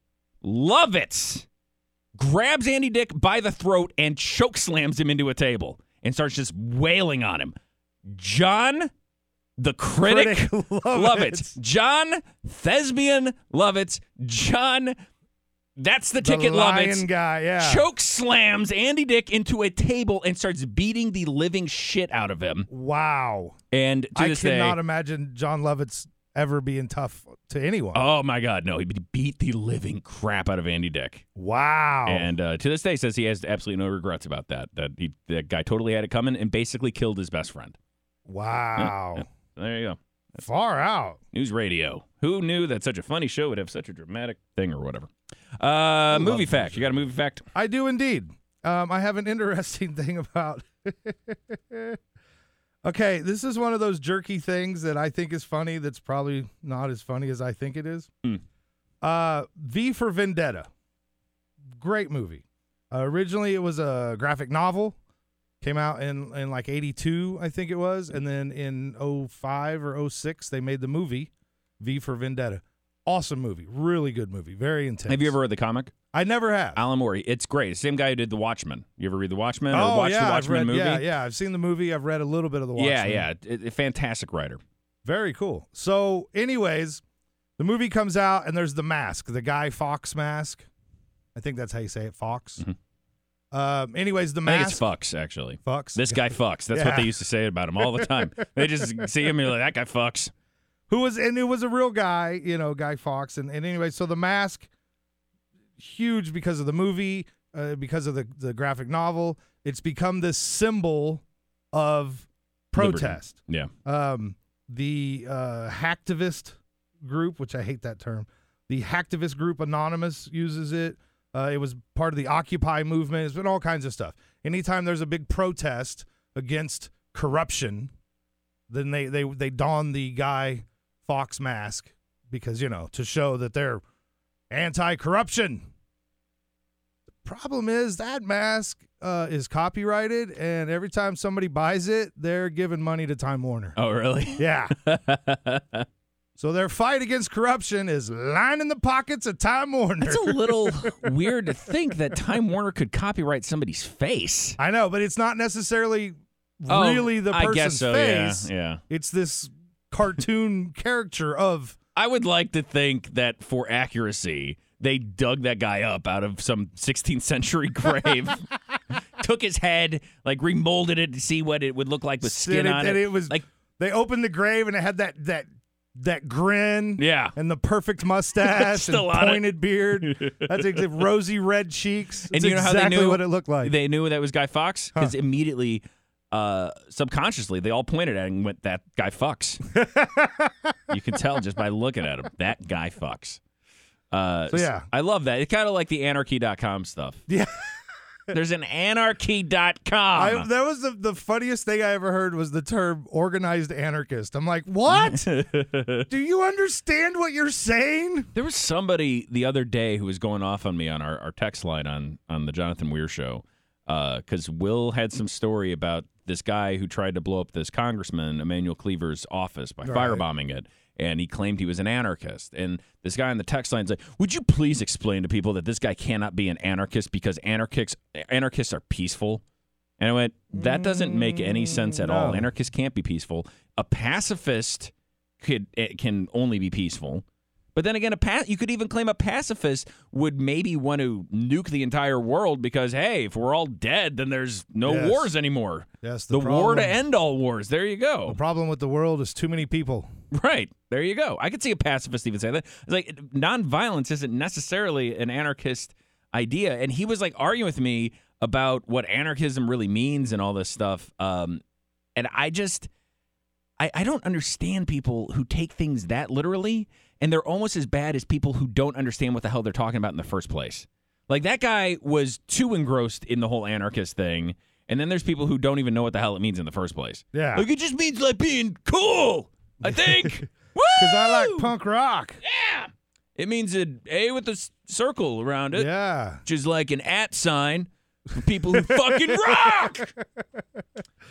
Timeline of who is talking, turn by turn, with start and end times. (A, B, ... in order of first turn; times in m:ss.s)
0:00.4-0:01.5 A
0:02.2-0:07.5 A
0:08.1-0:08.9 A
0:09.6-0:15.0 A
0:10.0-0:11.5 B
0:15.8-0:17.1 A
0:16.2-0:17.9 B
0:17.6-0:22.7 A
0:22.7-0:23.6 B
0:23.7-0:24.8 A
0:24.2-0:28.0 B
0:27.9-0:31.2 A
0:31.4-0:32.3 B
0:32.1-0:37.8 A
0:38.3-0:39.2 B
0:38.8-0:40.4 A
0:40.4-0:41.2 B
0:41.3-0:47.4 A
0:46.1-0:52.0 B
0:52.8-0:58.1 B
0:59.0-1:00.7 B
1:01.7-1:05.0 B
1:05.6-1:15.4 B
1:15.1-1:15.9 A
1:16.1-1:16.8 B
1:16.8-1:21.0 A
1:19.7-1:23.3 B
1:22.8-1:24.6 A
1:25.0-1:27.0 B
1:27.6-1:30.7 B
1:31.4-1:32.6 B
1:33.5-1:34.8 B
1:34.4-1:40.3 A
1:35.7-1:37.1 B
1:37.8-1:38.2 B
1:40.9-1:44.7 B
1:45.8-2:07.9 B
1:52.8-1:53.7 A
2:08.7-2:13.8 B
2:14.5-2:15.7 B
2:17.2-2:23.8 B
2:23.8-2:25.9 A
2:24.4-2:24.8 B
2:26.4-2:31.1 B
2:30.0-2:34.6 A
2:34.6-2:41.8 B
2:36.7-2:38.8 A
2:42.0-2:48.5 A
2:49.2-2:53.4 A
2:52.2-3:03.7 B
2:57.0-2:57.4 A
2:58.4-2:59.4 A
3:00.0-3:01.0 A
3:02.3-3:09.6 A
3:09.7-3:10.8 B
3:10.9-3:13.4 A
3:14.1-3:17.2 A
3:14.5-3:14.9 B
3:17.3-3:17.7 B
3:18.3-3:20.5 A
3:20.2-3:25.3 B
3:24.9-3:26.1 A
3:26.1-3:28.3 B
3:28.3-3:49.4 A
3:39.8-3:40.2 B
3:50.0-3:57.2 A
3:50.5-3:52.5 B
3:57.8-4:08.4 A
4:04.8-4:05.3 B
4:06.0-4:07.0 B
4:08.3-4:10.1 B
4:10.3-4:21.6 A
4:22.2-4:22.9 A
4:23.8-4:41.7 A
4:37.3-4:37.7 B
4:39.8-4:42.4 B
4:42.4-4:45.9 A
4:45.7-4:46.4 B
4:46.4-4:50.1 A
4:48.7-4:50.0 B